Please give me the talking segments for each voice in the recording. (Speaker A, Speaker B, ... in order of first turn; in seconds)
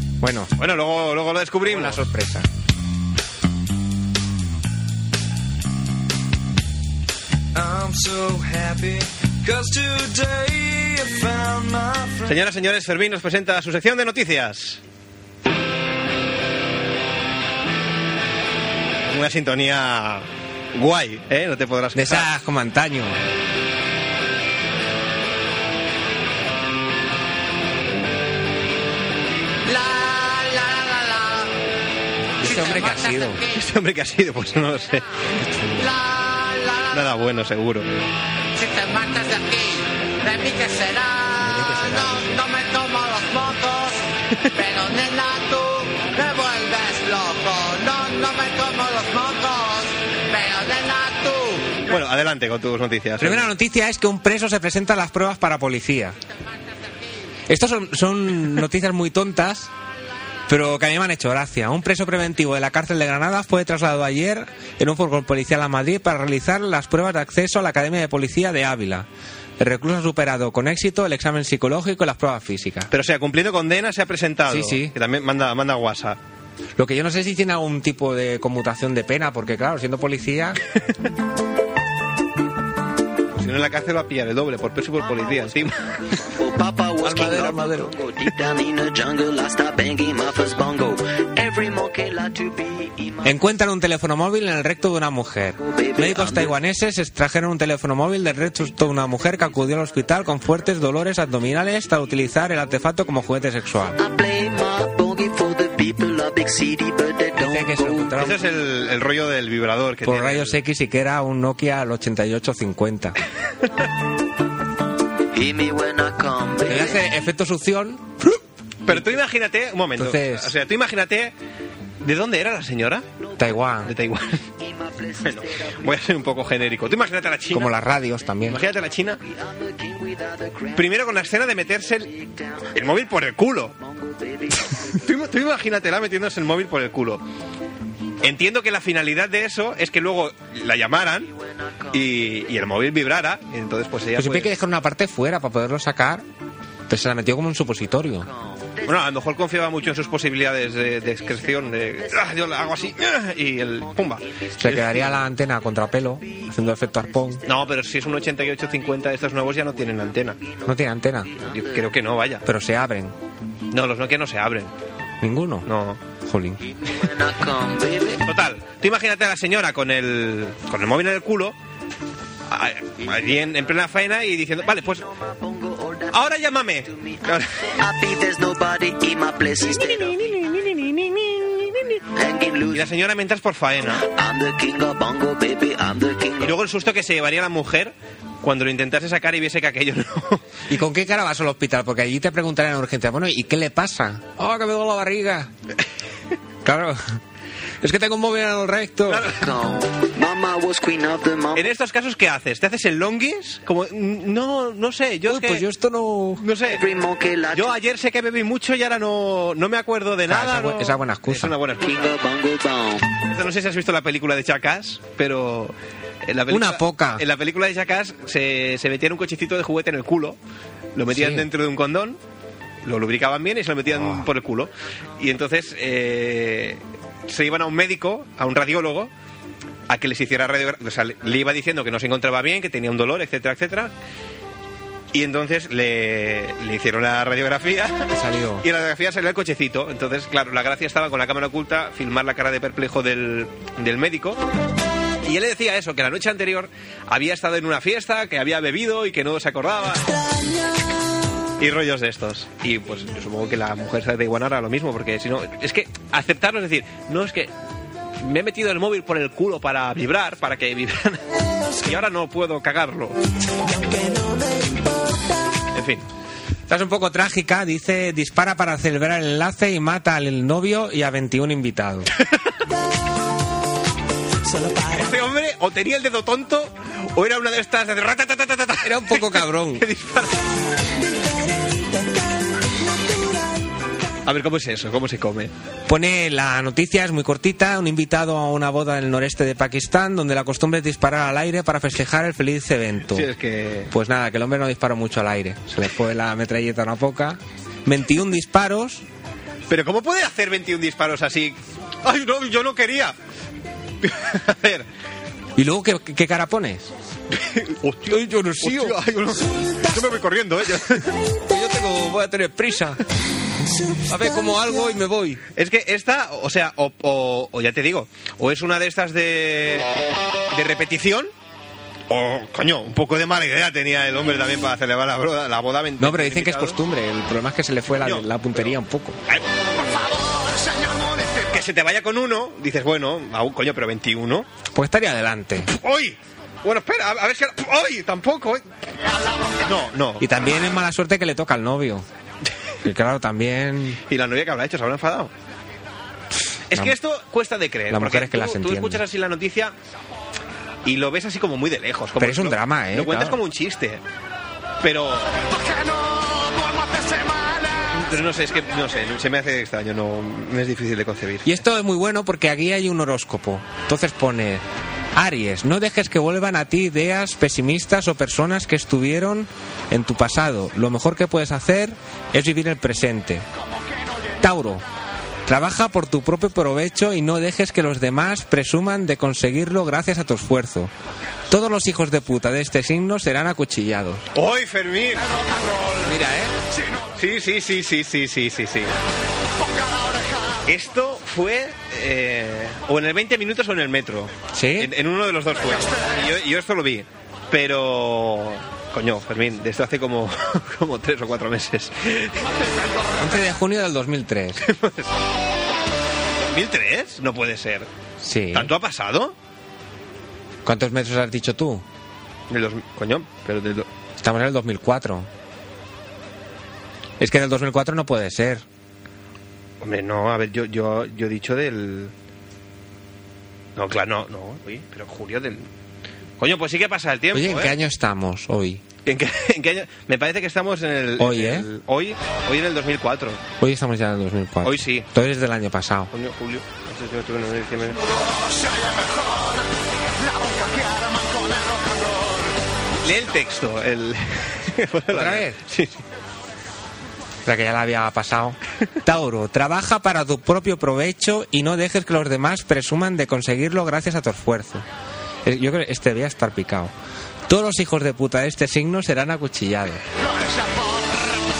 Speaker A: 0.2-0.5, 1.6-2.5, 21.9-23.2, 32.4-33.4, 35.4-35.9, 41.4-42.4, 53.2-56.1, 57.5-59.7, 60.5-69.1, 69.6-72.9, 74.5-74.9, 76.8-80.6, 87.0-87.9, 93.2-104.0, 107.4-108.4, 110.0-113.2, 116.7-119.1, 120.0-120.5, 123.4-123.9, 127.5-128.6, 144.2-146.2, 146.9-148.3, 154.6-157.4, 160.6-161.3, 162.4-163.1, 165.2-165.7, 166.2-166.6, 190.7-195.5, 196.6-197.2, 197.8-199.3, 205.2-206.4, 210.2-211.6, 216.5-217.2, 221.1-221.5, 223.9-224.2, 238.1-238.6, 266.7-272.1, 278.8-279.8, 285.9-293.3, 293.9-299.0, 305.6-306.9, 308.1-309.0, 311.4-313.0, 313.9-315.4, 326.0-329.2, 334.7-335.7, 340.2-342.1, 342.8-344.0, 347.9-349.0, 352.2-353.4, 361.4-373.4, 374.4-374.8, 375.4-380.9, 381.5-384.3, 386.0-386.5, 394.5-394.9, 403.2-404.6, 408.2-408.7, 410.6-411.8, 414.2-415.3, 417.2-418.6, 427.3-428.8, 431.2-431.7, 433.6-436.1, 445.1-445.6, 447.4-454.8, 455.4-456.9, 457.5-460.0
Speaker B: 0.6-2.1, 12.2-14.8, 19.1-22.3, 33.5-35.0, 36.9-37.9, 51.9-53.5, 72.9-76.2, 83.3-85.9, 108.2-110.6, 118.9-121.3, 122.0-123.0, 123.8-124.4, 125.2-127.8, 128.4-129.2, 130.7-132.1, 132.7-133.8, 135.0-137.2, 138.2-141.3, 141.9-144.5, 148.8-155.0, 157.4-160.4, 161.4-162.4, 163.7-164.7, 165.6-166.0, 168.2-171.6, 172.5-175.0, 176.1-177.5, 182.7-184.0, 186.4-190.4, 199.1-199.4, 201.5-205.6, 206.4-206.8, 207.5-212.1, 213.3-220.4, 220.9-222.2, 222.8-229.1, 229.9-233.9, 235.1-238.1, 238.6-244.4, 245.2-250.1, 251.6-257.5, 258.2-261.2, 261.8-263.2, 265.7-266.0, 274.9-280.4, 284.2-285.5, 293.1-293.9, 299.7-303.1, 304.0-304.9, 307.3-311.1, 315.6-319.9, 320.5-321.3, 322.1-326.8, 328.0-328.7, 331.4-334.5, 335.6-338.6, 339.6-340.2, 344.1-345.3, 346.7-349.7, 350.8-354.0, 354.8-355.3, 357.9-361.6, 384.3-385.3, 387.2-388.9, 390.6-402.6, 404.6-405.1, 406.4-407.9, 408.5-409.3, 412.5-413.9, 419.8-422.1, 423.8-425.7, 426.4-427.7, 429.0-433.4, 434.6-435.1, 436.1-438.2, 443.0-446.0
Speaker C: 7.5-12.4
Speaker D: 29.6-31.5, 32.4-33.6, 35.8-37.1, 38.5-44.0, 44.5-51.8
Speaker E: 86.1-93.3, 95.6-96.5, 104.0-108.2, 115.3-117.0, 124.6-125.8, 129.2-131.2, 132.1-132.7, 133.8-134.9, 141.3-142.4, 148.2-149.1, 150.8-153.0, 153.7-155.0, 156.3-158.8, 160.3-161.9, 166.6-168.2, 174.6-180.6, 182.0-182.9, 183.9-186.6, 199.3-201.7, 206.7-207.8, 211.8-213.1